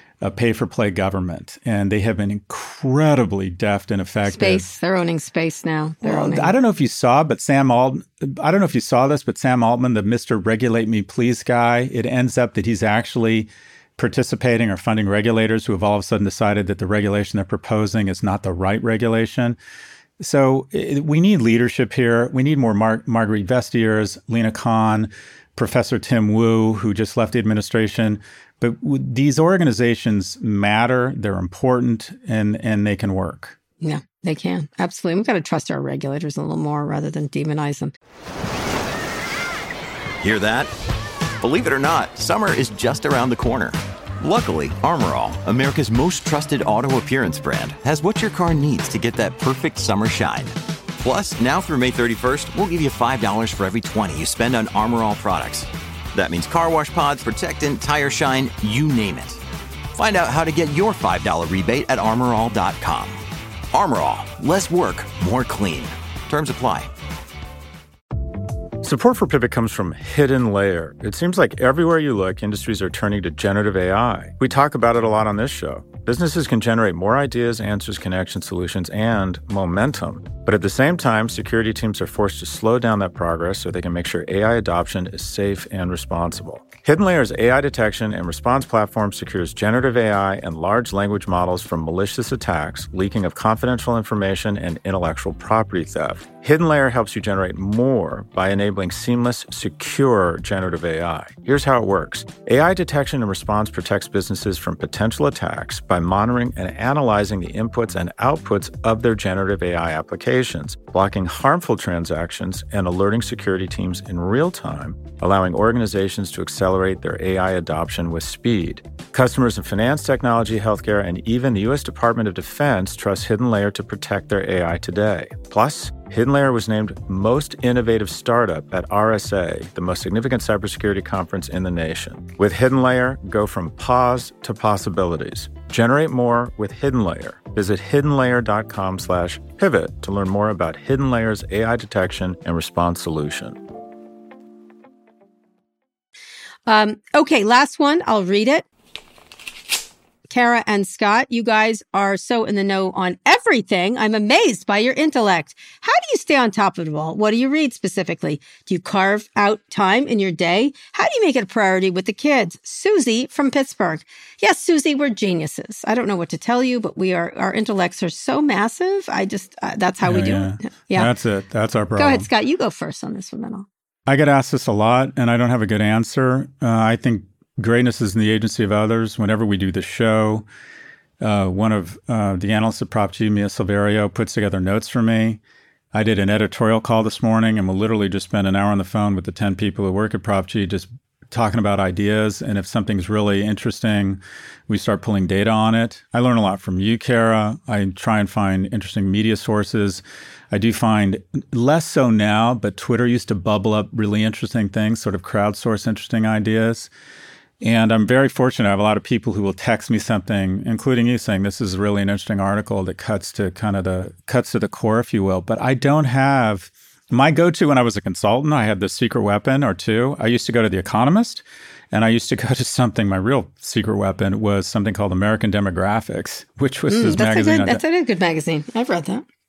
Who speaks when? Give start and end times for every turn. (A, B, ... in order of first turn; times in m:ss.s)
0:00.2-0:04.7 A
0:04.2-0:06.5 B
0:06.0-0:19.6 A
0:20.2-0:33.6 A
0:33.8-0:37.9 B
0:40.2-0:40.7 C
0:41.4-0:59.4 C
0:59.9-1:03.2 C
1:03.7-1:06.9 C
1:08.8-2:23.5 A
2:26.6-2:28.6 B
2:30.3-2:51.1 B
2:50.0-2:52.2 A
2:52.0-2:53.7 B
2:54.1-3:00.4 A
3:01.2-3:05.4 A
3:05.9-3:26.9 A
3:27.6-3:47.8 A
3:46.9-3:49.2 B